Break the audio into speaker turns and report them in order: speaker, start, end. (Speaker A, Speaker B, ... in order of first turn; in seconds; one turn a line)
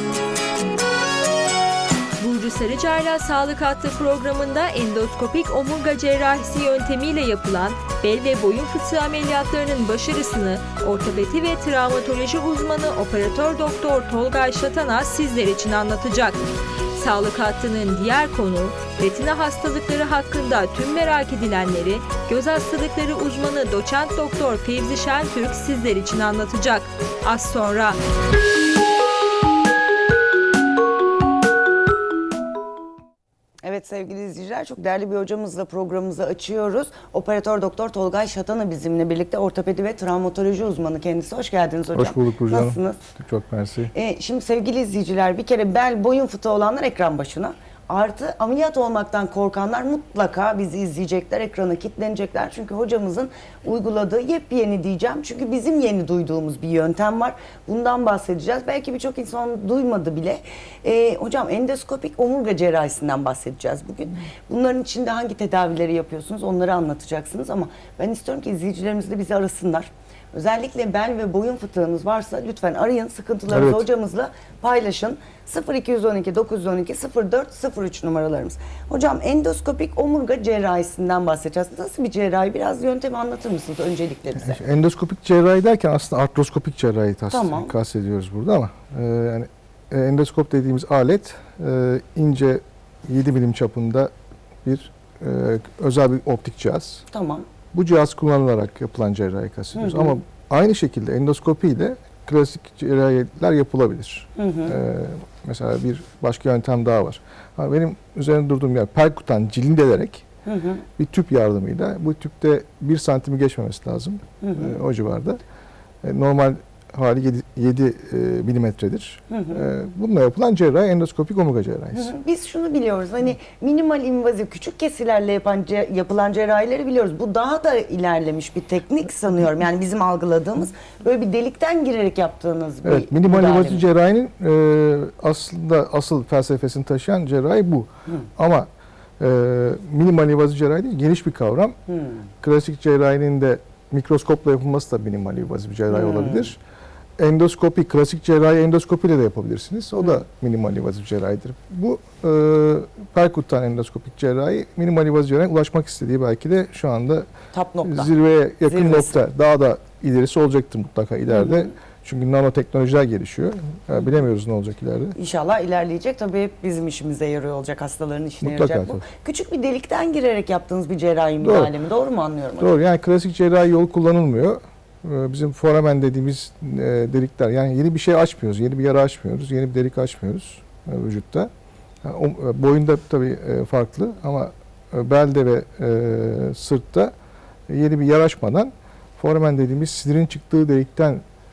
Speaker A: 2.2-28.0
Speaker B: 33.6-43.0
Speaker C: 41.9-43.9
Speaker B: 43.9-84.6
Speaker C: 73.5-73.8
Speaker C: 84.3-94.1
Speaker B: 87.3-87.7
Speaker C: 94.6-97.0
Speaker B: 97.1-97.5
Speaker C: 97.7-110.2
Speaker B: 99.7-100.2
Speaker B: 104.4-104.8
Speaker B: 110.5-110.8
Speaker C: 111.0-115.4
Speaker B: 114.4-114.8
Speaker C: 116.0-122.1
Speaker B: 119.3-119.6
Speaker B: 121.9-133.8
Speaker C: 132.8-138.7
Speaker C: 139.2-141.8
Speaker B: 141.9-142.3
Speaker C: 142.4-146.6
Speaker B: 145.9-146.5
Speaker C: 147.2-157.3
Speaker B: 157.5-158.1
Speaker C: 157.8-165.1
Speaker B: 158.6-159.2
Speaker B: 161.3-161.7
Speaker B: 165.2-172.7
Speaker C: 168.4-169.0
Speaker C: 171.4-171.7
Speaker C: 172.6-181.5
Speaker C: 182.0-187.1
Speaker C: 187.7-191.2